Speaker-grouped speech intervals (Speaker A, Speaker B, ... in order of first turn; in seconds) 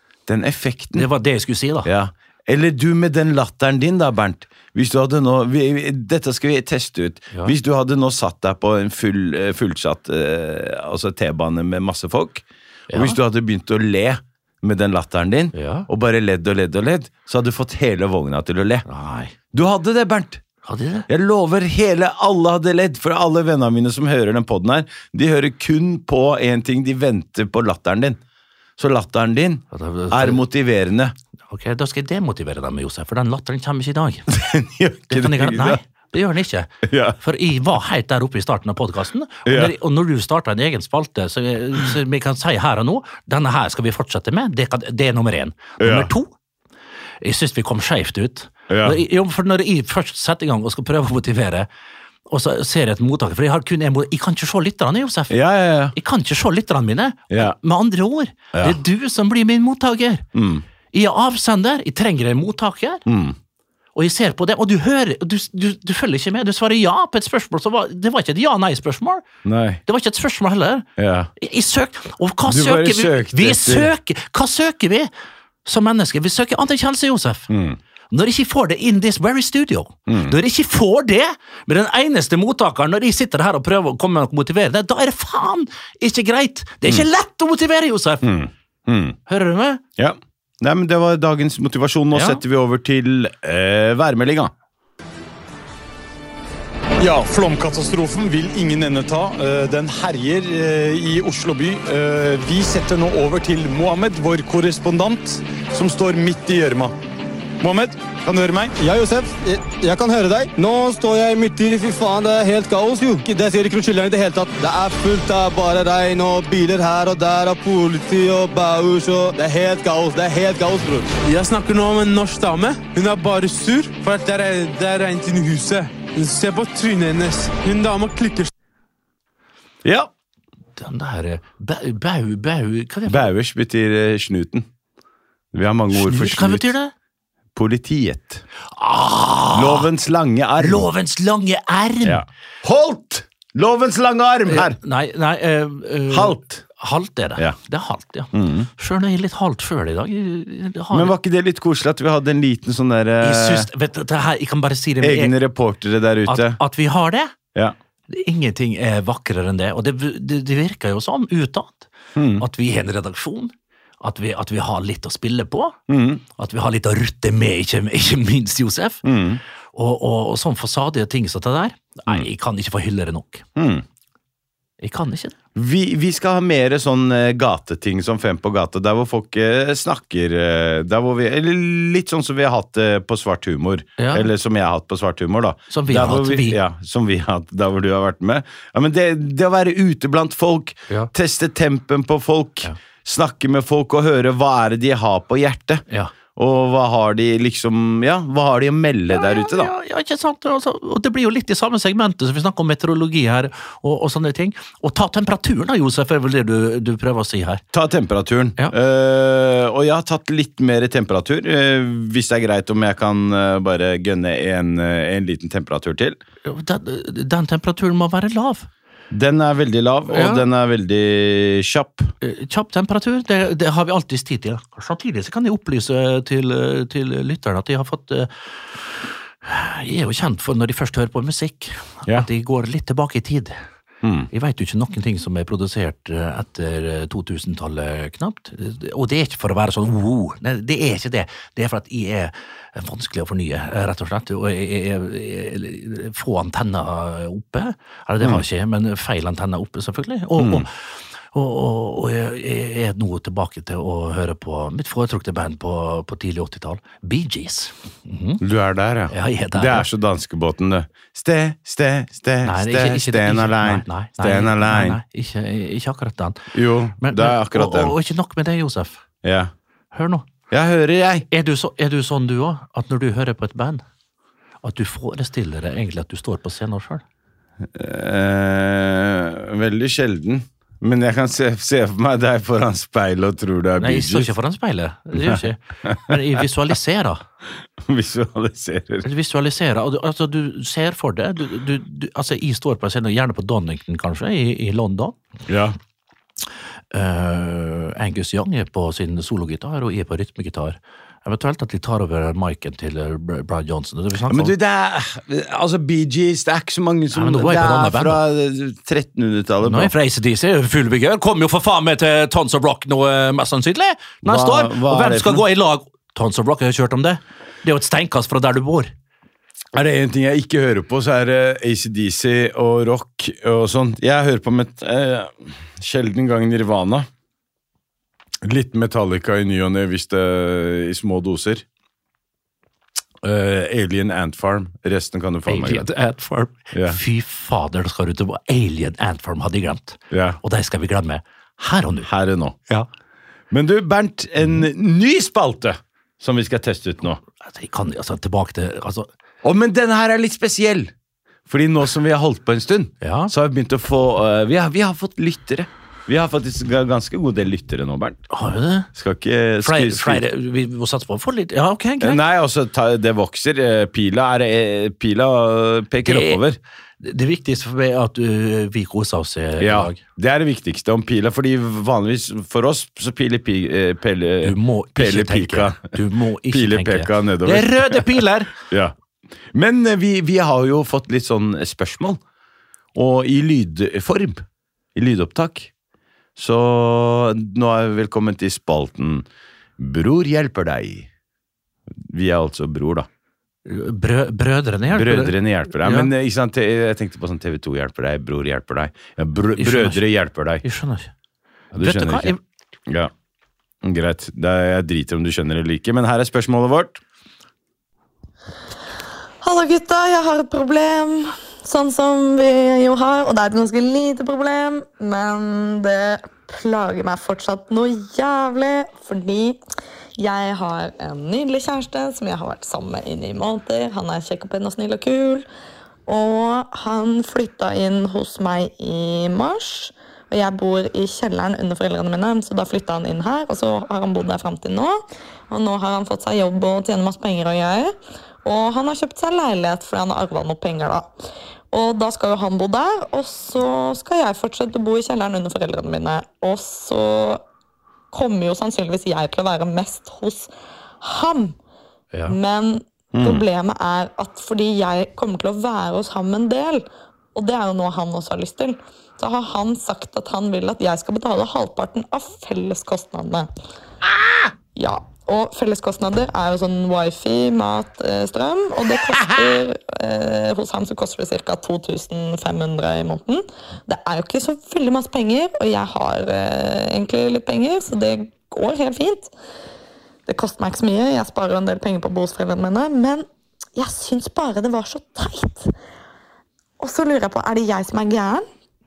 Speaker A: 0.3-1.1, 1.8-18.9, 19.5-20.4, 21.1-28.2, 28.8-31.1, 34.3-35.8, 36.8-37.2, 39.5-39.7, 45.8-46.1, 48.7-49.0, 55.3-56.0, 57.3-57.5, 58.5-58.8, 60.3-60.6, 63.1-63.4, 69.5-69.8, 71.0-71.3, 72.5-73.9, 77.5-77.8, 80.1-80.4, 88.2-89.2, 90.0-94.5, 129.8-130.1, 133.1-134.7, 135.5-136.7, 137.6-138.4, 139.5-140.9, 142.0-144.8, 146.1-146.6, 148.3-148.7, 150.9-153.7, 155.0-156.6, 162.2-162.4, 165.9-166.2, 169.0-169.4, 173.6-173.8, 175.6-195.8, 196.3-199.7, 207.7-216.2, 219.1-222.1, 234.0-234.3, 250.4-250.7, 258.4-265.0, 266.5-268.0, 269.2-269.5, 270.5-271.3, 277.7-284.3, 285.2-286.2, 287.8-289.1, 295.5-295.8, 304.3-309.9, 314.2-315.4, 319.7-327.1, 328.4-331.6, 333.2-335.9, 336.7-337.0, 340.1-340.4, 342.1-342.6, 343.5-347.2, 349.4-350.9, 351.5-358.2, 358.9-360.2, 362.0-366.6, 369.6-376.0, 376.5-378.9, 379.5-382.2, 382.9-384.4, 384.9-385.7, 386.4-389.3, 389.8-391.1, 392.0-393.1, 394.9-400.6, 401.7-402.4, 403.8-407.0, 453.1-453.4
Speaker B: 0.9-1.9, 12.9-13.2, 15.6-15.9, 18.9-19.3, 20.6-21.1, 29.7-30.4, 31.5-34.3, 35.1-46.3, 47.2-51.7, 52.3-55.4, 55.9-60.2, 60.9-63.0, 64.0-69.2, 69.9-70.9, 71.4-75.1, 75.7-77.5, 78.1-88.3, 89.3-89.8, 92.1-92.4, 130.8-133.3, 135.9-136.9, 138.7-139.9, 140.6-142.2, 144.5-151.1, 153.2-155.3, 156.3-157.3, 158.1-165.8, 166.4-169.0, 169.7-173.4, 174.8-175.3, 184.0-184.3, 185.7-186.6, 199.1-207.6, 216.4-218.7, 220.1-220.4, 222.2-233.6, 234.3-258.4, 259.1-259.9, 262.4-266.5, 267.0-269.0, 269.9-270.3, 271.3-273.8, 274.6-277.0, 283.8-287.2, 289.0-295.2, 296.9-304.5, 307.1-308.2, 309.6-318.9, 335.5-342.1, 347.4-349.1, 353.0-353.3, 358.3-358.9, 359.6-362.2, 366.1-366.4, 367.0-370.0, 374.4-378.5, 393.7-396.1, 399.6-400.0, 400.6-401.1, 401.8-402.4
Speaker C: 97.0-106.9, 107.6-108.8
Speaker D: 108.8-121.2
Speaker E: 121.2-128.5
Speaker F: 409.4-419.6, 420.2-425.5, 426.1-441.1, 441.7-447.4, 448.1-450.5, 451.0-451.6, 452.3-463.5, 464.8-479.3, 480.3-485.7, 486.8-488.5